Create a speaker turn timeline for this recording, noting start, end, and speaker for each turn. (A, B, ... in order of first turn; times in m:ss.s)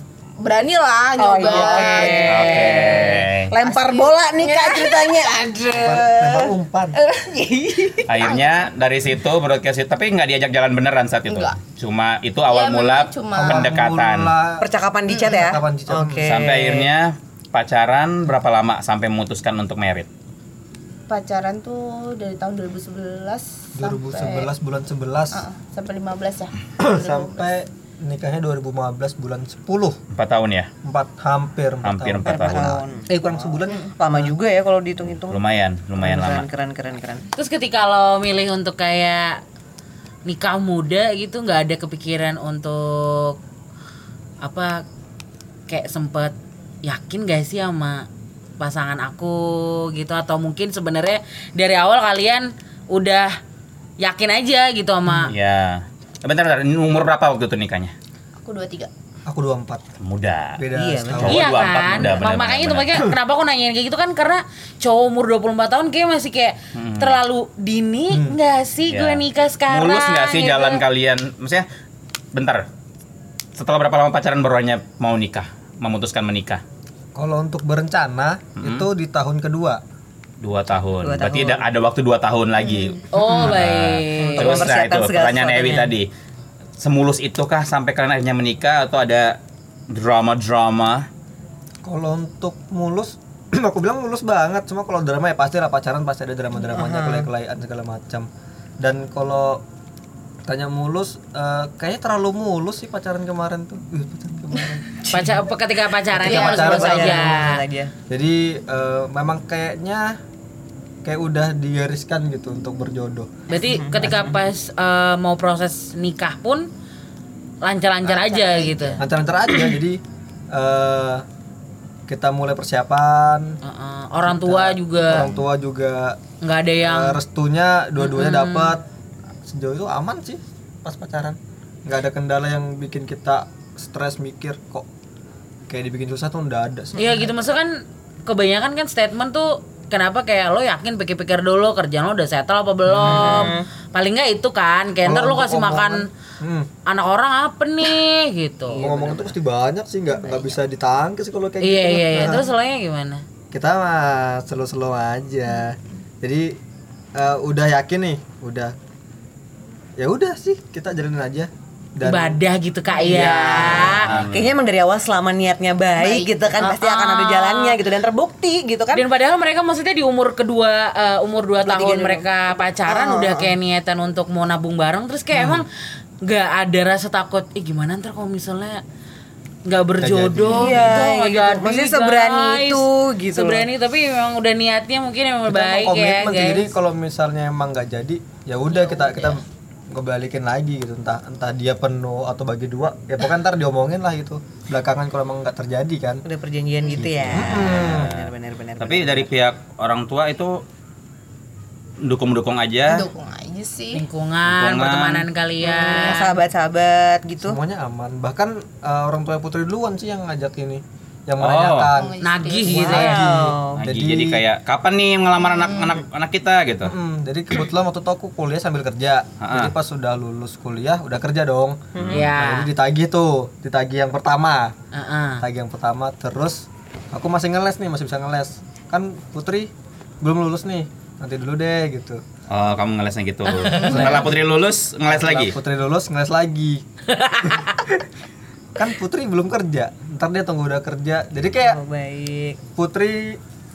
0:00.4-0:05.9 A
0:01.2-0:06.5 B
0:01.4-0:03.2 C
0:02.2-0:03.5 D
0:05.7-0:07.0 E
0:06.9-0:08.5 A
0:07.4-0:08.0 B
0:08.1-0:14.3 D
0:11.2-0:11.6 A
0:12.5-0:13.7 A
0:13.3-0:14.7 E
0:14.6-0:16.9 B
0:15.2-0:16.3 E
0:16.2-0:20.1 D
0:21.1-0:24.5 A
0:23.8-0:25.4 E
0:25.3-0:27.5 A
0:26.8-0:30.0 E
0:30.1-0:30.7 D
0:30.8-0:34.3 E
0:31.8-0:32.8 D
0:32.2-0:35.4 B
0:35.1-0:36.4 D
0:36.0-0:37.2 B
0:37.4-0:39.4 C
0:40.2-0:43.4 C
0:44.4-0:44.8 C
0:45.7-0:48.1 C
0:48.6-0:53.4 C
0:54.0-0:55.3 C
0:55.2-0:57.9 D
0:58.4-0:58.9 A
0:59.2-0:59.8 E
1:00.0-1:03.1 D
1:00.6-1:01.5 E
1:00.7-1:01.4 B
1:01.2-1:10.8 C
1:06.7-1:07.2 D
1:08.1-1:08.4 E
1:08.9-1:11.6 D
1:12.3-1:12.6 D
1:13.6-1:16.6 D
1:17.1-1:19.8 E
1:18.6-1:18.8 D
1:20.4-1:26.1 D
1:21.0-1:21.6 B
1:23.1-1:24.7 C
1:23.2-1:23.6 B
1:24.2-1:25.9 B
1:26.8-1:29.4 D
1:29.9-1:31.1 D
1:31.8-1:38.3 E
1:36.7-1:37.3 B
1:38.8-1:39.6 E
1:40.4-1:45.0 E
1:45.1-1:47.6 C
1:46.2-1:47.5 E
1:46.2-1:47.9 B
1:46.2-1:47.1 A
1:48.1-1:50.2 E
1:51.0-1:53.3 E
1:53.5-1:56.7 C
1:53.6-1:54.4 B
1:57.6-1:59.0 C
1:58.0-1:59.0 A
1:59.0-2:00.0 E
2:00.5-2:01.2 E
2:02.1-2:03.6 E
2:03.6-2:05.3 C
2:04.2-2:06.2 E
2:06.4-2:07.2 C
2:06.8-2:08.8 E
2:08.0-2:08.8 C
2:09.4-2:14.8 E
2:15.7-2:17.3 E
2:17.0-2:26.1 C
2:23.0-2:23.5 E
2:23.0-2:23.7 B
2:25.0-2:26.7 E
2:26.8-2:28.8 C
2:28.7-2:29.3 B
2:28.8-2:32.4 E
2:30.2-2:30.4 A
2:31.6-2:33.2 C
2:32.2-2:32.4 A
2:33.5-2:36.6 E
2:37.1-2:38.7 E
2:40.0-2:42.4 E
2:42.0-2:44.1 C
2:43.0-2:49.0 B
2:43.1-2:43.7 A
2:43.8-2:44.5 D
2:46.0-2:46.7 A
2:46.6-2:47.8 C
2:48.9-2:55.7 C
2:51.6-2:52.3 B
2:52.8-2:53.5 B
2:56.2-2:58.8 C
2:59.6-3:06.7 C
3:00.0-3:00.8 E
3:00.5-3:03.7 B
3:05.5-3:16.2 E
3:16.2-3:19.3 B
3:17.0-3:18.1 E
3:17.3-3:20.6 D
3:22.0-3:23.1 D
3:22.9-3:24.0 A
3:23.9-3:26.3 C
3:24.4-3:25.2 D
3:25.6-3:27.6 B
3:27.4-3:34.4 E
3:31.4-3:31.9 D
3:31.9-3:33.0 A
3:32.2-3:33.3 C
3:32.7-3:33.8 B
3:33.8-3:36.9 D
3:35.5-3:35.9 A
3:36.8-3:44.7 E
3:39.4-3:39.7 D
3:42.0-3:42.2 D
3:42.1-3:42.7 C
3:44.9-3:45.4 C
3:45.4-3:52.2 E
3:52.5-3:55.6 D
3:53.5-3:54.2 C
3:53.8-3:54.1 A
3:53.9-3:54.4 E
3:55.1-3:56.8 E
3:57.1-3:57.8 C
3:57.4-3:58.0 E
3:58.8-4:01.8 E
4:01.6-4:02.6 B
4:02.8-4:03.4 E